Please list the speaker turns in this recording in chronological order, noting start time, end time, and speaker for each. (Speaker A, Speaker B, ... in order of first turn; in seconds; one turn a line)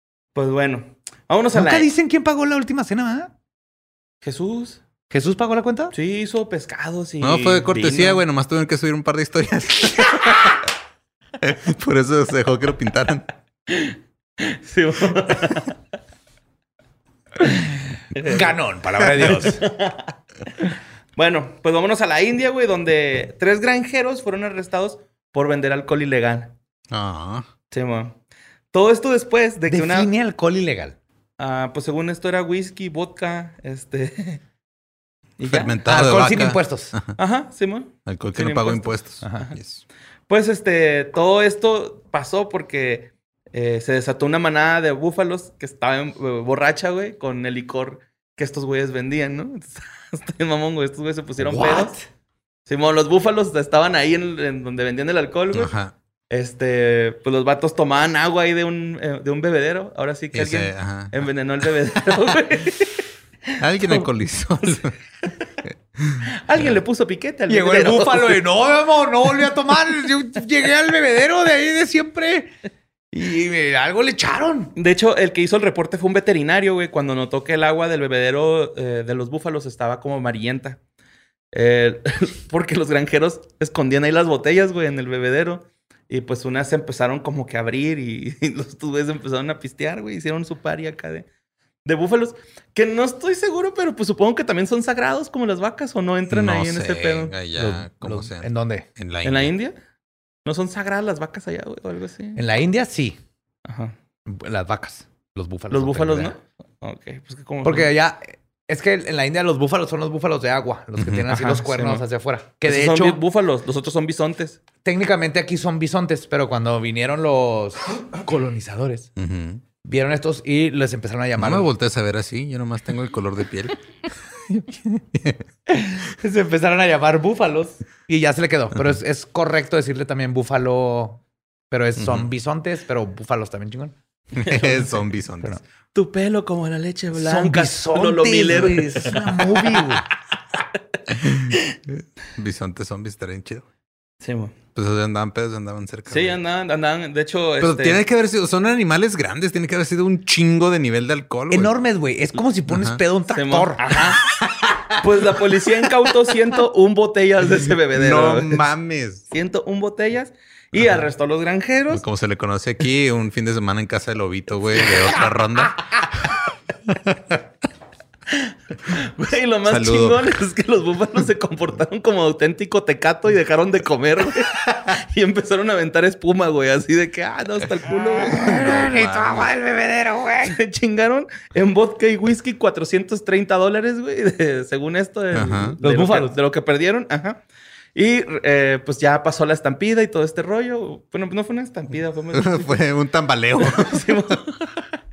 Speaker A: 0.3-1.9
Speaker B: 1.5-3.3
Speaker A: 4.2-4.8
Speaker B: 5.1-5.9
Speaker A: 5.9-8.2
Speaker C: 7.2-10.7
Speaker C: 11.4-13.3
Speaker A: 13.7-15.7
Speaker A: 18.1-18.5
Speaker B: 18.2-19.6
Speaker A: 19.2-20.1
Speaker A: 21.2-26.5
Speaker C: 26.9-27.5
Speaker A: 27.7-28.2
Speaker A: 28.7-30.1
Speaker B: 29.7-31.0
Speaker A: 31.4-34.4
Speaker A: 35.4-35.8
Speaker C: 35.5-37.2
Speaker B: 35.9-36.9
Speaker A: 37.2-39.5
Speaker C: 38.1-39.8
Speaker B: 39.2-39.5
Speaker A: 40.3-52.0
Speaker B: 51.4-52.1
Speaker A: 52.7-55.7
Speaker C: 55.5-55.9
Speaker A: 56.3-63.0
Speaker C: 60.3-61.3
Speaker C: 63.6-65.0
Speaker C: 66.0-66.2
Speaker A: 66.3-68.4
Speaker B: 67.5-72.5
Speaker B: 73.1-74.8
Speaker A: 74.8-80.8
Speaker A: 81.5-91.3
Speaker A: 91.8-97.3
Speaker C: 96.3-99.5
Speaker B: 97.5-98.9
Speaker A: 99.2-99.8
Speaker A: 100.5-102.4
Speaker B: 102.4-103.2
Speaker A: 103.7-104.0
Speaker B: 104.3-106.3
Speaker A: 105.7-107.9
Speaker B: 107.6-113.2
Speaker C: 111.0-111.3
Speaker A: 111.3-112.0
Speaker A: 112.6-114.6
Speaker B: 114.8-119.1
Speaker C: 119.2-119.6
Speaker B: 119.8-121.7
Speaker C: 121.4-123.8
Speaker C: 124.4-125.4
Speaker B: 125.7-134.8
Speaker C: 132.0-132.3
Speaker C: 134.4-135.6
Speaker A: 135.9-139.8
Speaker B: 137.2-140.1
Speaker C: 141.1-143.7
Speaker A: 144.2-144.6
Speaker C: 144.8-146.4
Speaker A: 146.1-148.0
Speaker C: 147.6-151.7
Speaker B: 151.5-154.0
Speaker C: 152.7-153.0
Speaker A: 153.3-154.2
Speaker A: 154.9-158.6
Speaker C: 157.9-159.3
Speaker A: 159.3-162.0
Speaker C: 161.9-166.3
Speaker C: 166.9-167.2
Speaker A: 168.3-178.4
Speaker C: 169.7-170.3
Speaker B: 178.2-180.6
Speaker C: 178.3-179.5
Speaker A: 180.4-187.4
Speaker C: 185.3-185.8
Speaker B: 185.8-186.3
Speaker A: 187.9-192.8
Speaker C: 192.3-194.3
Speaker A: 193.6-194.7